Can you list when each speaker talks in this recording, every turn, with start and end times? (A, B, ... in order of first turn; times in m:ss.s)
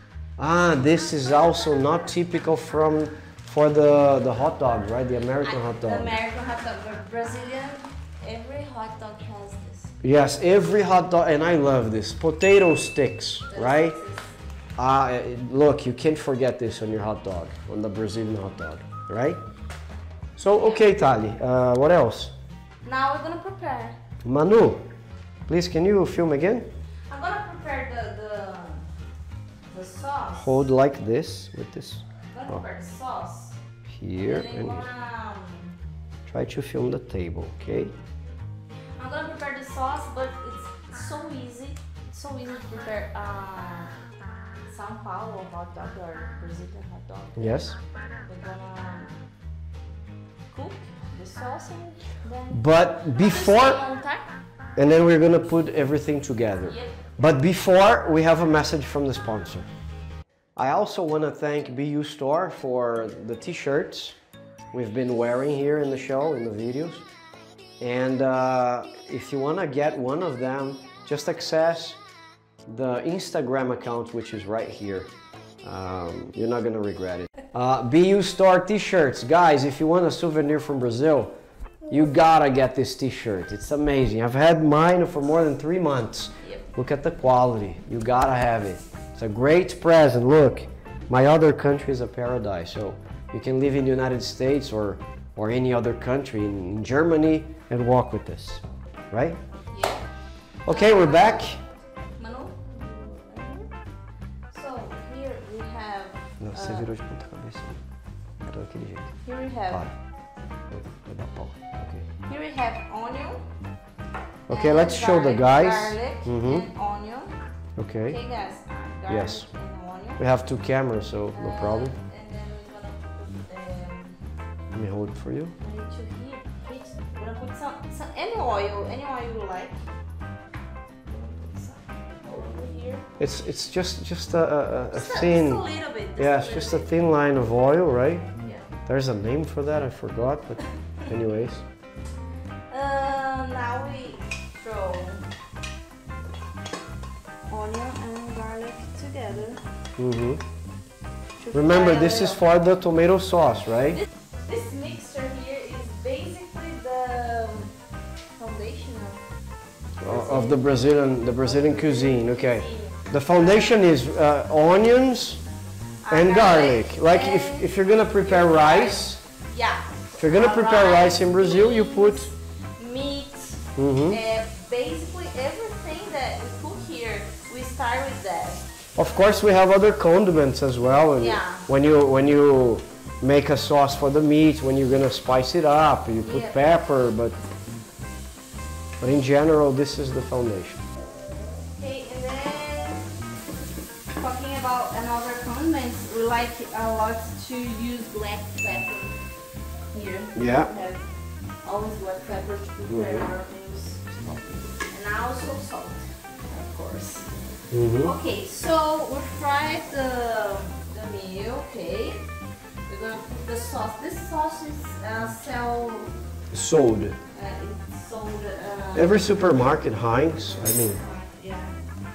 0:00.4-0:06.2 A
0:05.4-0:09.9 B
0:10.0-0:14.0 A
0:13.5-0:14.4 B
0:14.8-0:19.4 A
0:20.4-0:22.3 A
0:20.5-0:20.9 B
0:22.8-0:24.0 B
0:24.2-0:24.8 A
0:25.5-0:26.7 A
0:27.1-0:28.9 B
0:29.7-0:30.7 B
0:30.4-0:32.6 A
0:32.3-0:33.6 B
0:33.9-0:34.9 A
0:34.2-0:35.8 B
0:36.3-0:38.0 A
0:39.0-0:43.9 B
0:44.7-0:49.2 B
0:47.4-0:47.8 A
0:50.5-0:54.4 B
0:52.5-0:53.8 A
0:54.8-0:59.7 A
0:56.6-0:57.0 B
1:00.6-1:04.2 A
1:04.7-1:07.0 A
1:07.8-1:12.0 A
1:12.7-1:15.1 A
1:15.6-1:21.4 A
1:21.9-1:39.4 A
1:26.4-1:26.7 B
1:39.7-1:40.0 B
1:40.7-1:41.6 A
1:40.7-1:41.5 B
1:42.2-1:43.7 B
1:44.5-1:46.9 B
1:46.4-1:47.8 A
1:48.4-1:49.1 A
1:49.2-1:49.8 B
1:49.7-1:49.9 A
1:50.7-1:52.1 A
1:52.2-1:53.4 B
1:54.5-1:56.7 A
1:54.5-1:57.3 B
1:57.8-1:58.2 A
1:58.1-2:00.2 B
1:59.1-1:59.5 A
2:00.2-2:02.0 A
2:01.3-2:04.2 B
2:04.7-2:05.6 A
2:05.6-2:09.8 B
2:11.1-2:13.0 B
2:13.2-2:15.6 A
2:14.9-2:16.9 B
2:16.2-2:18.3 A
2:18.4-2:18.7 B
2:18.9-2:21.7 A
2:22.7-2:25.2 B
2:27.5-2:29.6 B
2:30.0-2:30.4 A
2:31.4-2:32.4 B
2:31.5-2:34.0 A
2:34.4-2:37.7 B
2:38.4-2:39.2 B
2:40.0-2:45.4 A
2:40.0-2:43.8 B
2:46.0-2:59.3 B
2:46.1-2:49.2 A
2:50.2-2:52.3 A
2:53.8-2:54.2 A
2:59.0-3:07.4 A
3:01.2-3:01.7 B
3:06.2-3:06.9 B
3:09.0-3:10.8 A
3:11.7-3:13.0 B
3:14.1-3:19.2 B
3:19.9-3:21.0 B
3:20.3-3:20.7 A
3:21.6-3:27.3 B
3:22.9-3:23.3 A
3:27.7-3:28.0 A
3:27.8-3:32.2 B
3:32.9-3:36.1 B
3:36.5-3:37.2 A
3:37.3-3:39.7 B
3:39.0-3:41.0 A
3:40.3-3:41.7 B